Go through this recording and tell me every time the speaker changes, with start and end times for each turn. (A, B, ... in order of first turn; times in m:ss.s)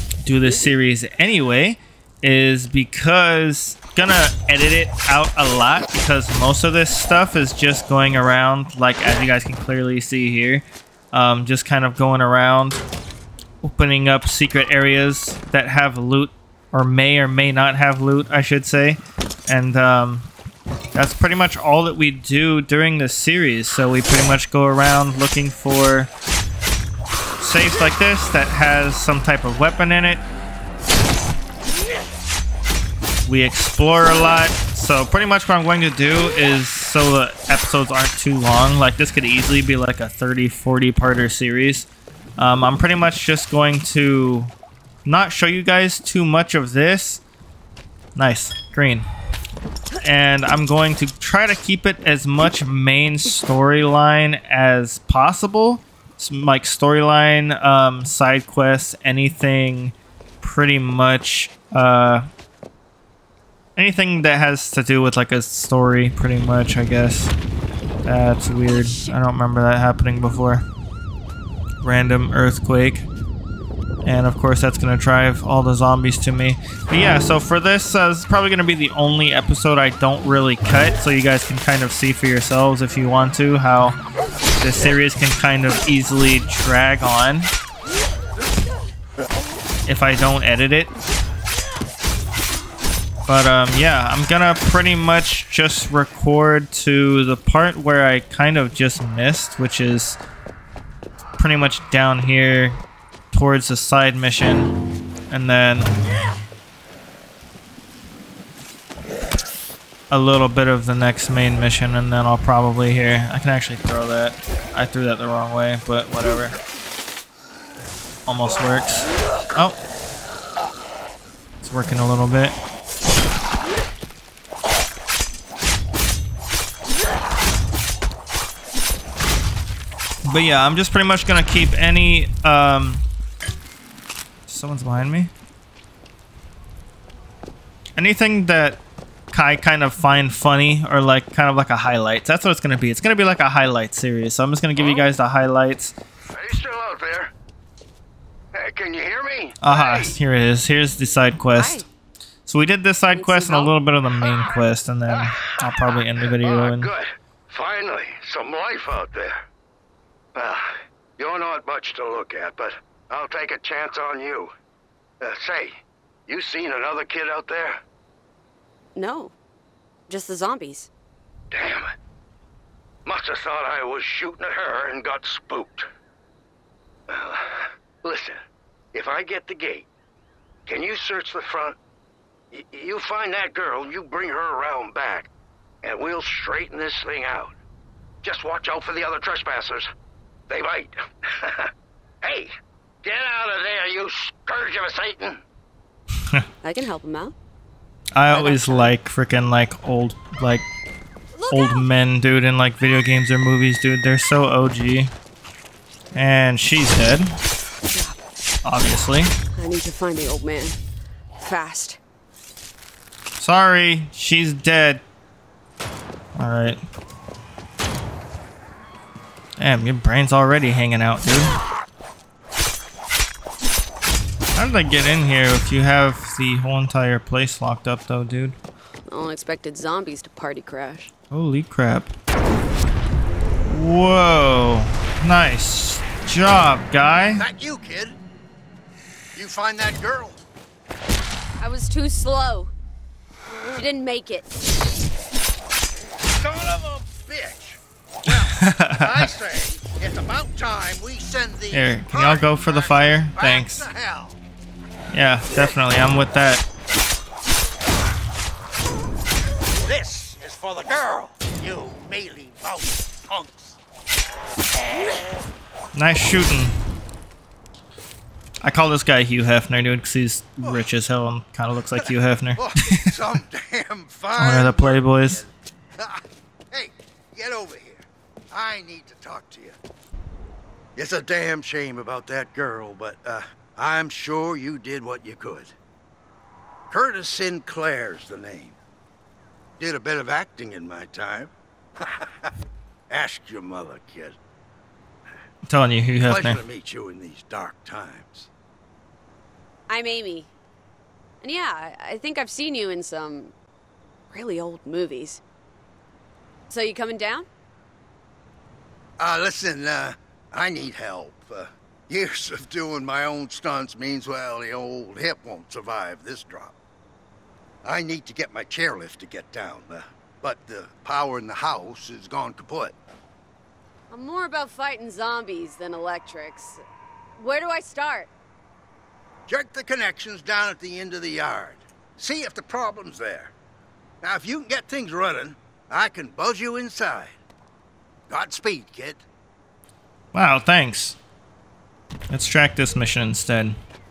0:00.2-0:12.8 A
0:13.6-0:20.3 A
0:20.9-0:26.1 A
0:27.4-0:30.2 A
0:33.3-0:44.5 A
0:45.1-0:47.2 A
0:48.2-0:49.1 A
0:50.0-1:02.3 A
1:03.8-1:07.3 A
1:08.0-1:10.6 A
1:08.7-1:09.2 B
1:11.8-1:13.1 A
1:14.0-1:24.0 A
1:24.6-1:27.5 A
1:29.9-1:30.9 A
1:33.3-1:40.2 A
1:41.4-1:42.8 A
1:43.3-1:44.7 A
1:45.3-1:46.0 A
1:50.1-1:56.6 A
1:58.3-1:59.8 A
2:01.6-2:02.6 A
2:10.2-2:13.0 A
2:14.5-2:15.3 A
2:18.0-2:18.8 A
2:19.3-2:26.0 A
2:26.3-2:27.3 C
2:28.5-2:30.2 C
2:29.6-2:31.8 A
2:31.6-2:31.8 B
2:32.5-2:36.9 A
2:33.1-2:33.7 B
2:35.1-2:35.7 C
2:36.2-2:39.4 C
2:40.4-2:44.5 C
2:45.2-2:45.7 C
2:46.3-2:47.8 C
2:49.0-2:49.3 B
2:50.1-2:50.9 B
2:51.5-2:52.0 C
2:53.0-2:55.9 C
2:57.1-2:58.4 C
2:58.9-2:59.9 C
3:00.7-3:01.8 C
3:02.5-3:05.3 C
3:05.8-3:07.5 C
3:08.2-3:09.9 C
3:10.5-3:11.7 C
3:12.2-3:12.5 C
3:13.0-3:15.4 C
3:16.6-3:17.4 B
3:18.1-3:20.6 A
3:18.3-3:19.0 B
3:21.4-3:21.9 B
3:21.5-3:25.1 A
3:26.2-3:27.4 A
3:27.9-3:28.2 B
3:28.6-3:29.3 A
3:29.6-3:30.8 B
3:31.4-3:32.0 B
3:33.4-3:35.0 A
3:36.4-3:36.8 A
3:39.6-3:41.6 A
3:44.6-3:48.6 A
3:49.1-3:51.1 B
3:51.3-3:52.1 A
3:53.7-3:57.4 A
3:57.4-3:58.2 C
3:59.4-4:00.4 C
4:01.6-4:02.7 B
4:03.7-4:04.5 B
4:06.3-4:14.4 C
4:08.4-4:09.3 A
4:11.7-4:13.9 A
4:15.1-4:16.6 A
4:19.8-4:23.8 C
4:25.9-4:26.8 A
4:28.6-4:33.4 A
4:30.6-4:30.9 C
4:32.6-4:39.8 C
4:34.4-4:35.4 A
4:41.0-4:45.7 C
4:46.9-4:48.8 C
4:49.8-4:52.5 C
4:53.1-4:54.4 C
4:55.7-4:56.6 A
4:56.2-4:58.5 C
4:59.9-5:00.5 B
5:01.4-5:03.5 B
5:04.3-5:05.4 B
5:06.7-5:07.5 B
5:09.2-5:16.8 C
5:17.8-5:23.0 C
5:24.1-5:26.8 B
5:27.4-5:28.3 B
5:29.5-5:33.5 C
5:34.2-5:37.4 C
5:38.3-5:39.2 C
5:40.3-5:41.2 A
5:42.3-5:43.8 A